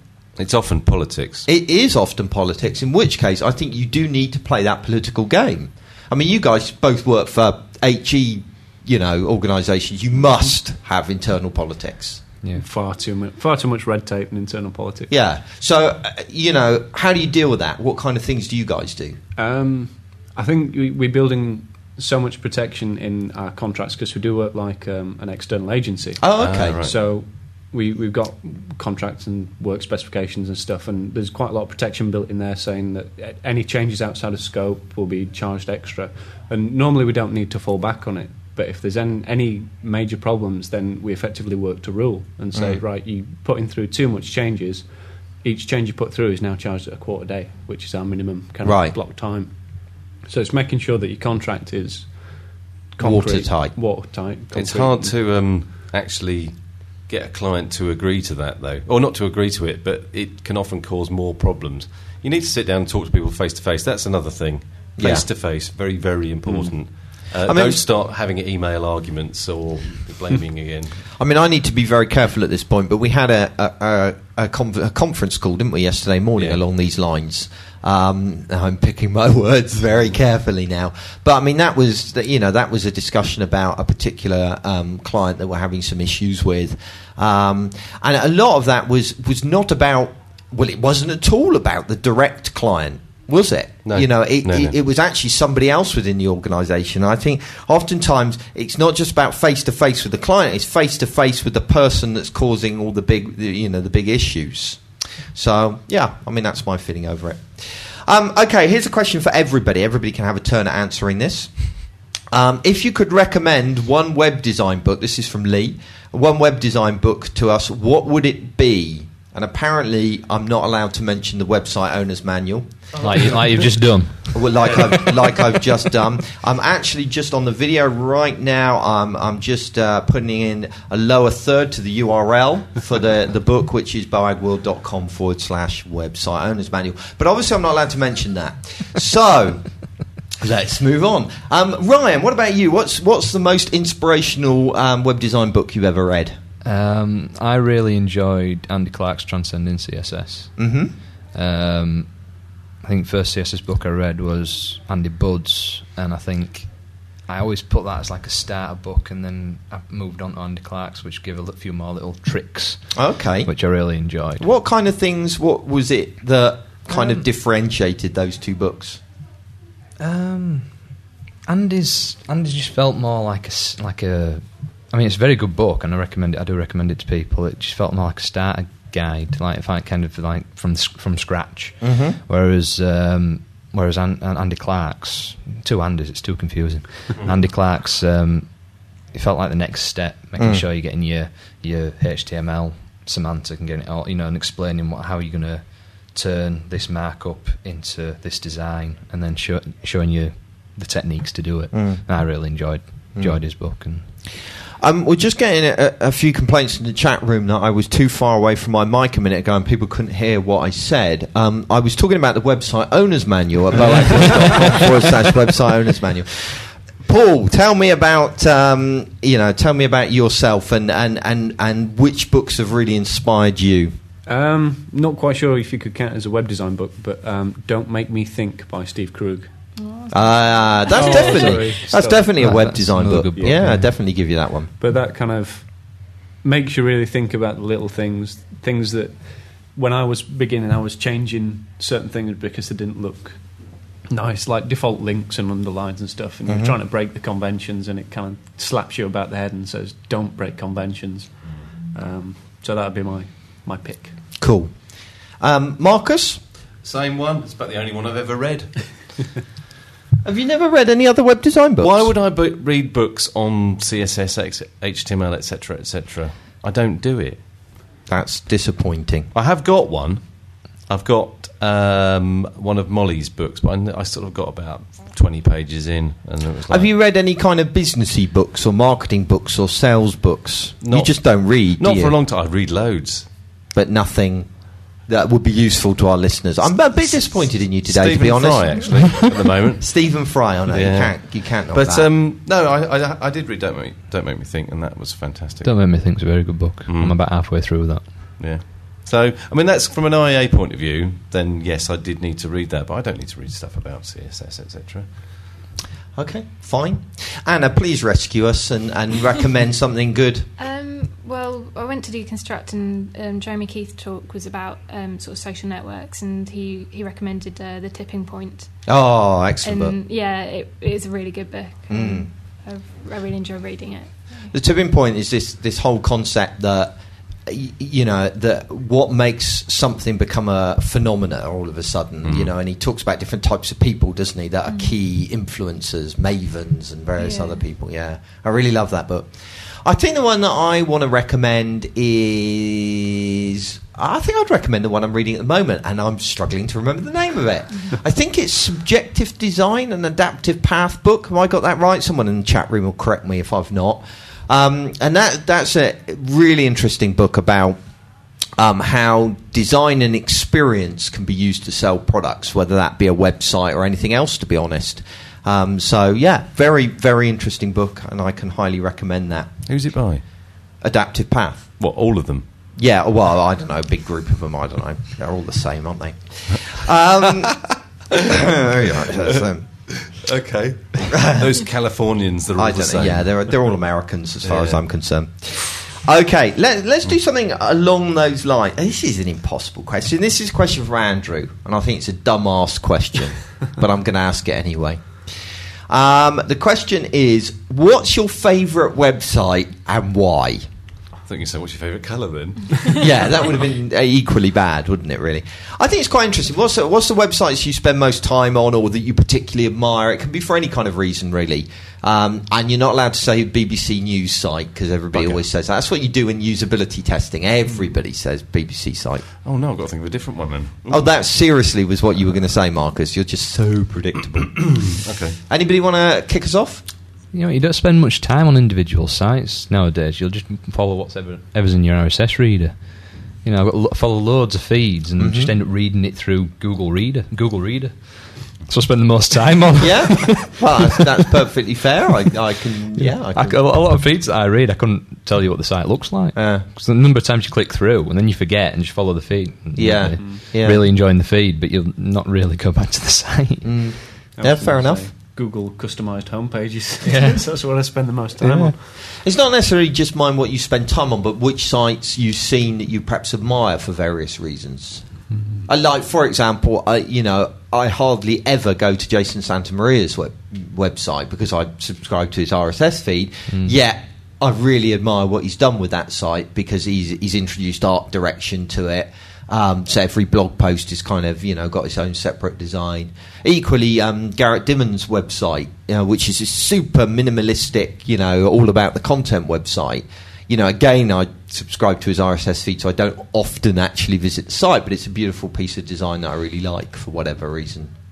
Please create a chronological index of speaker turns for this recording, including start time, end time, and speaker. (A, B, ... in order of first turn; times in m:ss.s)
0:00.4-0:01.5 A
0:01.4-0:12.2 B
0:12.5-0:15.1 C
0:15.1-0:19.2 B
0:19.4-0:55.2 C
0:26.2-0:26.8 B
0:26.4-0:27.0 A
0:42.5-0:42.8 B
0:48.6-0:49.0 B
0:53.0-0:53.7 B
0:54.5-1:11.0 A
1:05.0-1:05.2 B
1:06.4-1:06.8 C
1:07.4-1:07.8 B
1:11.2-1:44.8 B
1:16.4-1:16.6 A
1:33.8-1:34.8 A
1:45.3-2:19.8 B
2:03.0-2:04.8 D
2:20.4-2:26.4 B
2:26.6-2:44.5 D
2:30.6-2:30.9 B
2:42.9-2:49.0 B
2:46.9-2:47.2 D
2:50.0-3:24.1 D
3:01.8-3:02.2 B
3:07.1-3:07.4 A
3:10.4-3:10.6 B
3:21.7-3:22.0 B
3:23.1-3:23.8 B
3:24.8-3:43.9 B
3:44.2-3:49.7 C
3:49.7-3:51.6 E
3:50.1-3:54.7 B
3:50.9-3:54.3 C
3:52.0-3:54.3 D
3:54.8-4:14.2 C
4:06.5-4:06.7 B
4:14.4-4:16.4 B
4:16.8-4:19.3 A
4:20.2-4:22.1 B
4:21.8-4:27.4 A
4:28.0-4:29.3 B
4:29.3-4:36.9 A
4:36.7-4:42.1 B
4:40.8-4:43.3 A
4:43.7-4:49.2 B
4:47.8-4:50.0 A
4:49.8-4:52.1 B
4:50.7-4:56.3 A
4:55.6-4:58.4 D
4:56.9-4:57.2 A
4:58.4-5:05.4 A
5:06.1-5:10.5 B
5:10.6-5:19.0 E
5:18.9-5:19.9 B
5:19.6-5:24.5 E
5:21.9-5:22.3 B
5:24.5-5:58.0 B
5:32.2-5:32.5 A
5:34.6-5:34.9 E
5:37.2-5:37.7 E
5:58.6-6:09.6 B
6:09.7-6:10.2 A
6:10.8-6:11.8 B
6:11.8-6:12.4 A
6:12.8-6:19.6 B
6:20.1-6:23.6 A
6:22.6-6:35.3 B
6:24.4-6:24.8 A
6:35.9-6:40.6 B
6:41.2-6:43.0 A
6:43.0-6:59.2 B
6:55.1-6:55.4 A
6:59.4-7:01.3 A
7:00.9-7:06.8 B
7:05.0-7:05.4 A
7:07.3-7:21.0 D
7:15.2-7:15.5 B
7:19.8-7:23.7 B
7:23.0-7:34.0 D
7:26.3-7:26.6 B
7:29.8-7:30.8 B
7:30.2-7:30.4 C
7:33.6-7:35.0 B
7:34.3-7:38.9 C
7:37.0-7:38.7 D
7:39.2-8:17.9 B
7:45.3-7:45.6 C
7:53.5-7:53.8 D